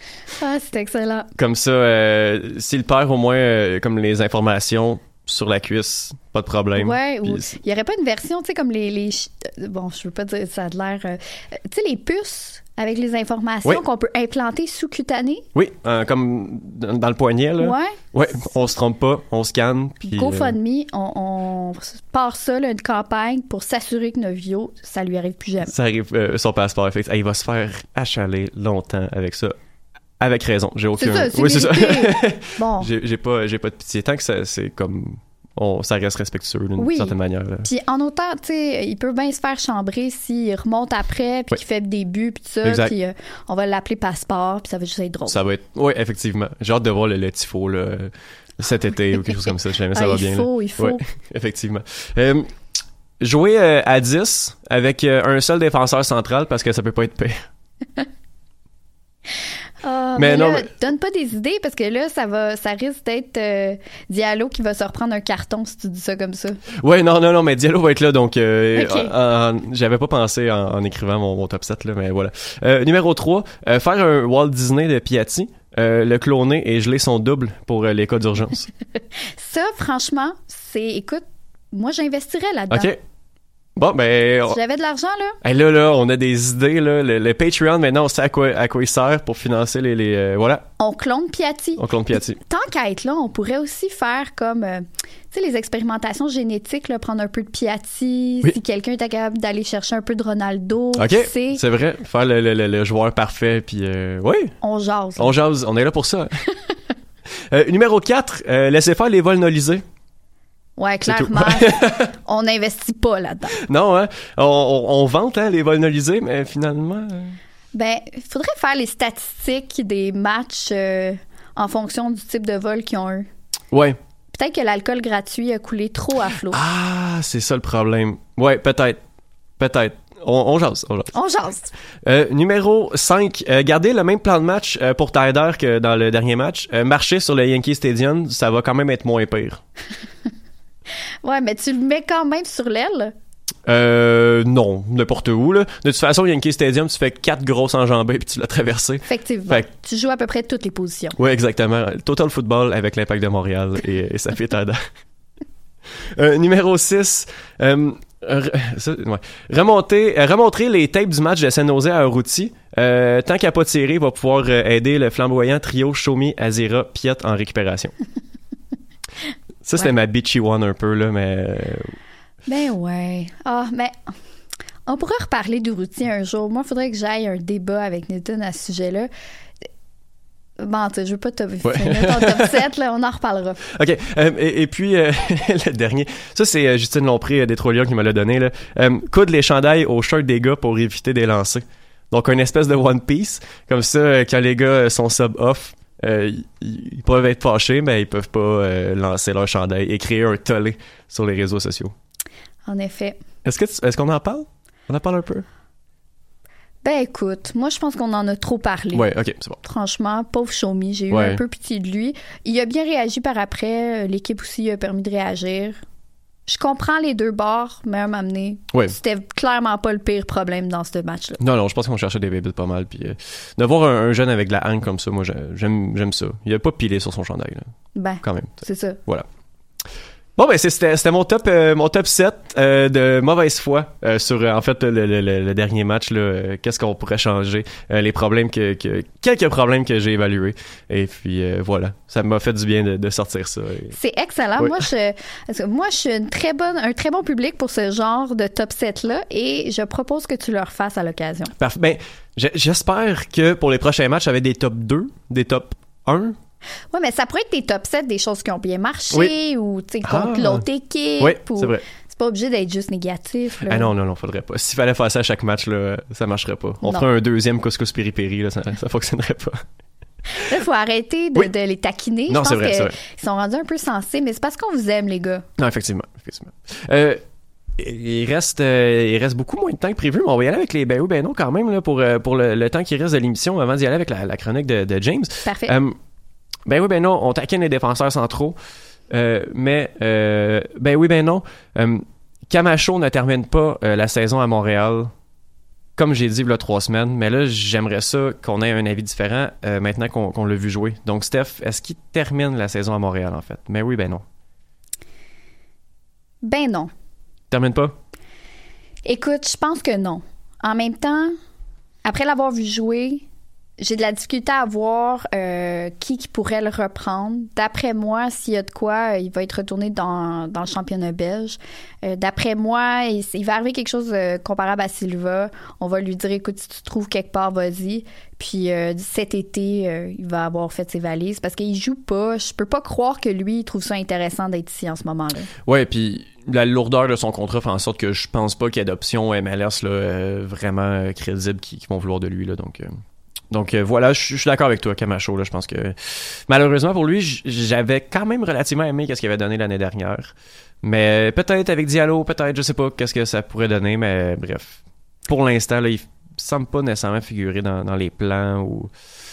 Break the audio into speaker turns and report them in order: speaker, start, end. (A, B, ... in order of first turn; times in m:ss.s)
0:00.4-0:01.3 A
0:01.4-0:07.5 B
0:06.8-0:11.2 A
0:11.7-0:15.5 A
0:15.6-0:20.5 B
0:17.6-0:18.0 A
0:20.0-0:25.7 A
0:25.7-0:29.6 B
0:30.2-0:37.7 B
0:31.0-0:32.9 A
0:36.8-0:37.1 A
0:37.6-0:45.4 A
0:42.6-0:42.9 B
0:45.3-0:52.5 B
0:50.0-0:51.0 A
0:53.2-0:57.5 B
0:59.8-1:06.6 A
1:00.2-1:00.7 B
1:06.8-1:18.7 B
1:08.8-1:09.1 A
1:19.4-1:22.9 A
1:22.7-1:23.0 B
1:23.8-1:24.6 B
1:24.5-1:25.4 A
1:25.4-1:30.7 B
1:30.8-1:31.8 A
1:31.8-1:32.4 B
1:32.4-1:41.6 A
1:41.0-1:44.6 B
1:44.6-1:45.3 A
1:45.2-1:46.4 B
1:47.5-1:49.8 B
1:50.8-1:53.6 A
1:51.1-1:52.1 B
1:53.6-1:57.4 B
1:57.7-2:03.3 A
2:03.7-2:04.0 B
2:04.3-2:06.6 A
2:06.5-2:09.0 B
2:09.6-2:11.1 B
2:11.1-2:11.7 A
2:12.1-2:19.6 B
2:21.2-2:23.1 A
2:23.7-2:29.7 B
2:29.1-2:31.2 A
2:31.2-2:34.8 B
2:36.2-2:47.9 B
2:49.6-2:52.0 B
2:52.5-2:53.9 A
2:54.9-2:59.1 A
3:00.6-3:03.6 A
3:01.6-3:02.6 B
3:03.7-3:21.9 B
3:22.7-3:23.2 A
3:23.4-3:25.4 B
3:26.8-3:29.0 A
3:28.9-3:29.6 B
3:29.6-3:35.8 A
3:31.1-3:31.4 B
3:36.5-3:41.4 A
3:41.4-3:47.7 B
3:48.0-3:49.0 A
3:48.2-3:49.3 B
3:50.4-4:04.0 B
4:03.9-4:11.5 A
4:04.6-4:04.8 B
4:11.6-4:16.4 B
4:16.9-4:23.9 A
4:20.0-4:20.6 B
4:21.2-4:21.8 B
4:23.6-4:29.6 B
4:26.8-4:27.1 A
4:30.4-4:35.4 A
4:32.3-4:33.0 B
4:35.6-4:37.2 B
4:37.8-4:45.9 B
4:45.4-4:45.7 A
4:46.7-4:48.6 B
4:49.1-4:55.1 B
4:56.0-5:04.2 B
5:06.4-5:06.9 A
5:07.5-5:08.0 B
5:09.0-5:11.4 A
5:12.0-5:13.2 A
5:13.8-5:35.5 A
5:35.7-5:42.9 B
5:43.5-5:58.9 B